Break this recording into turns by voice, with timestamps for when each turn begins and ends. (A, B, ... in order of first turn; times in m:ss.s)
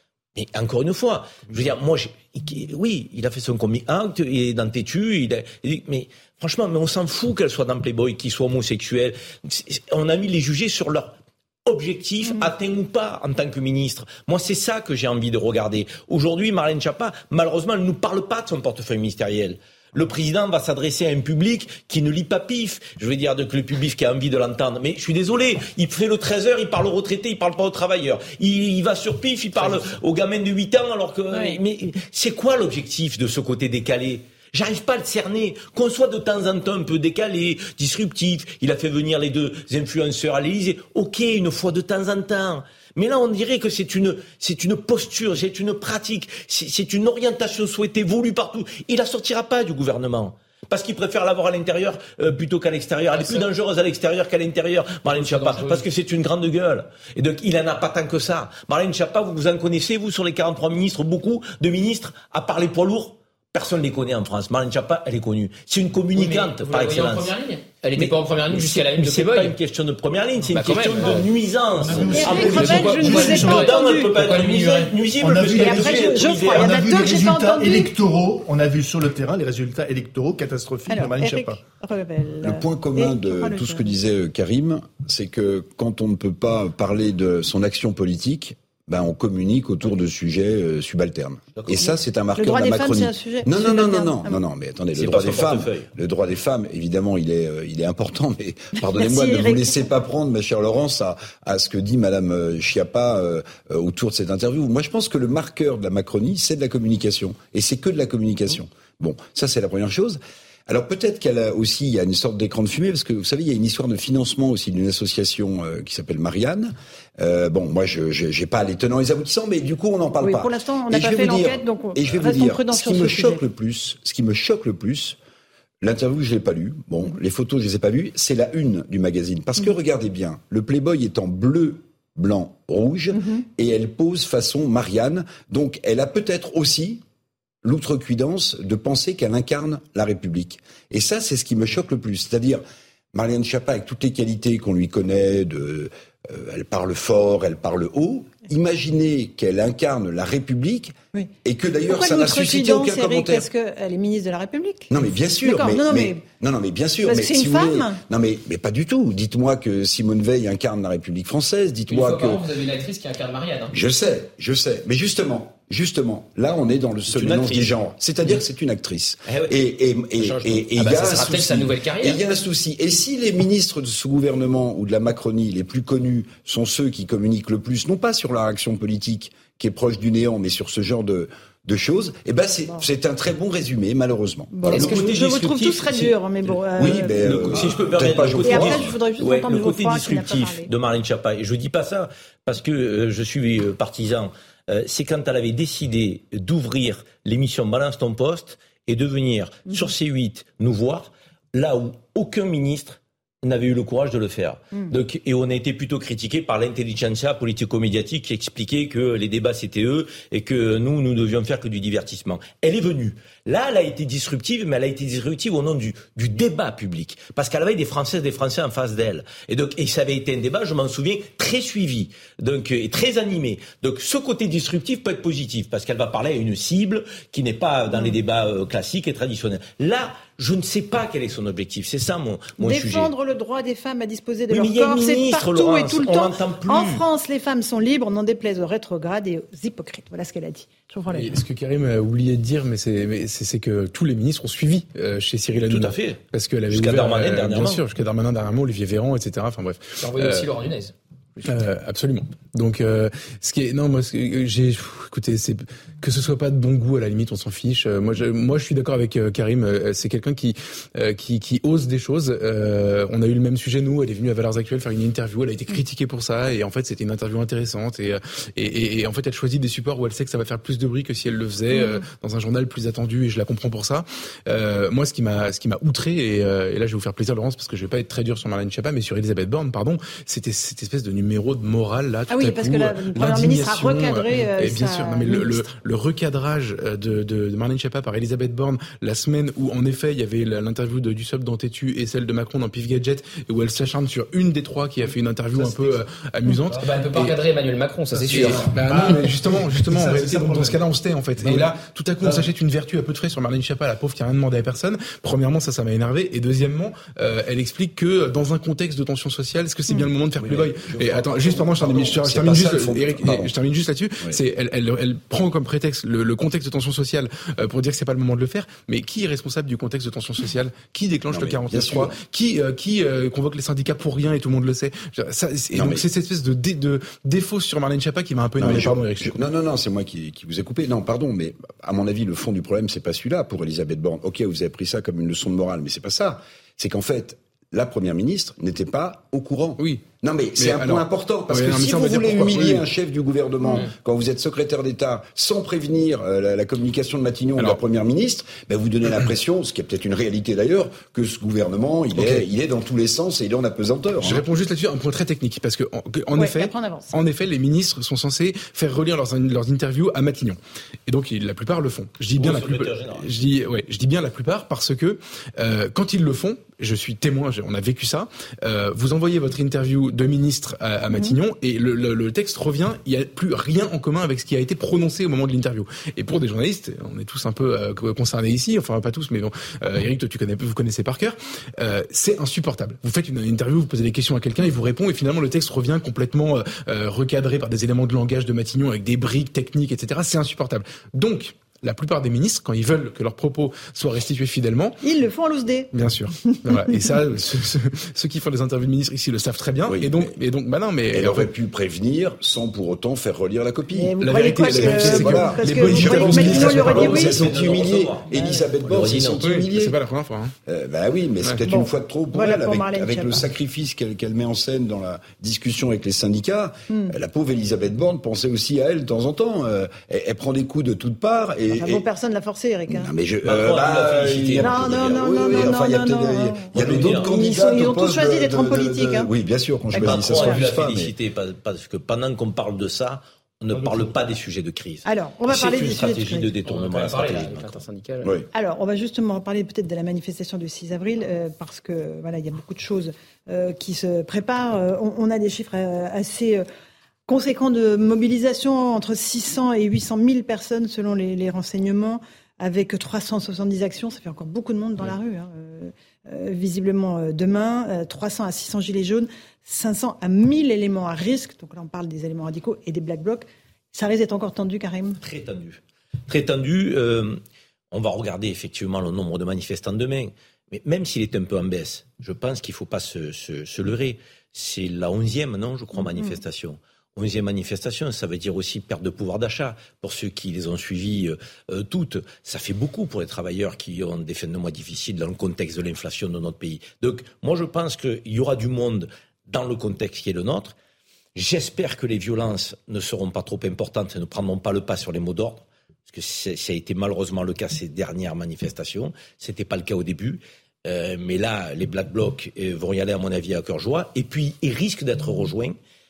0:00.4-1:07.3 A
0:31.3-0:31.6 B
0:53.1-0:53.5 C
0:55.1-0:55.8 C
1:06.2-1:09.5 C
1:08.0-1:16.7 A
1:10.5-1:11.3 C
1:11.0-1:11.2 B
1:11.8-1:13.7 D
1:11.9-1:14.9 C
1:12.1-1:14.3 B
1:15.2-1:21.6 D
1:15.5-1:17.9 B
1:20.9-1:24.0 B
1:22.4-2:05.2 E
1:31.6-1:31.9 A
1:32.4-1:34.4 B
1:35.0-1:35.9 A
1:38.9-1:39.8 B
2:00.2-2:03.4 B
2:05.8-2:17.0 E
2:13.1-2:13.4 B
2:17.6-2:22.6 E
2:23.1-2:33.5 E
2:31.9-2:36.2 B
2:34.9-2:42.5 E
2:37.0-2:38.0 B
2:41.9-2:43.8 C
2:43.7-3:05.0 E
2:47.1-2:47.8 A
2:49.3-2:50.7 A
2:50.8-2:52.2 C
3:04.5-3:10.7 B
3:04.7-3:06.6 A
3:06.8-3:08.9 E
3:07.2-3:53.1 A
3:52.6-4:01.4 B
3:54.5-3:57.0 A
4:01.1-4:10.5 F
4:05.7-4:07.8 A
4:10.0-4:11.4 C
4:11.4-4:57.4 F
4:31.7-4:32.0 B
4:42.3-4:45.7 B
4:55.0-4:56.0 D
4:56.8-4:59.1 C
4:58.2-5:29.4 F
4:58.3-5:00.9 D
5:01.4-5:02.5 D
5:10.4-5:13.5 E
5:21.3-5:22.1 E
5:25.8-5:26.0 E
5:28.6-5:54.4 E
5:39.8-5:40.1 F
5:40.6-5:42.8 F
5:52.2-5:52.4 F
5:54.2-6:35.0 F
5:56.3-5:57.1 B
6:02.4-6:03.3 A
6:11.1-6:11.4 B
6:35.0-6:35.9 B
6:35.9-6:41.5 F
6:36.5-6:37.0 B
6:39.9-6:40.3 E
6:41.1-6:50.0 E
6:43.9-6:47.7 B
6:44.2-6:47.6 F
6:46.8-6:49.4 A
6:48.3-6:48.7 B
6:49.4-6:50.5 F
6:50.7-7:02.0 E
6:51.7-6:53.5 B
7:01.7-7:03.1 B
7:02.9-7:11.1 E
7:03.4-7:05.7 A
7:04.6-7:09.3 B
7:06.8-7:07.4 A
7:09.9-7:10.7 B
7:10.0-7:17.8 A
7:13.8-7:14.1 D
7:15.0-7:16.5 B
7:16.7-7:18.4 C
7:18.2-7:18.5 E
7:18.5-7:26.6 B
7:27.3-7:45.2 B
7:45.2-7:47.4 A
7:47.9-8:10.8 A
7:56.0-7:56.4 B
8:11.4-8:25.8 A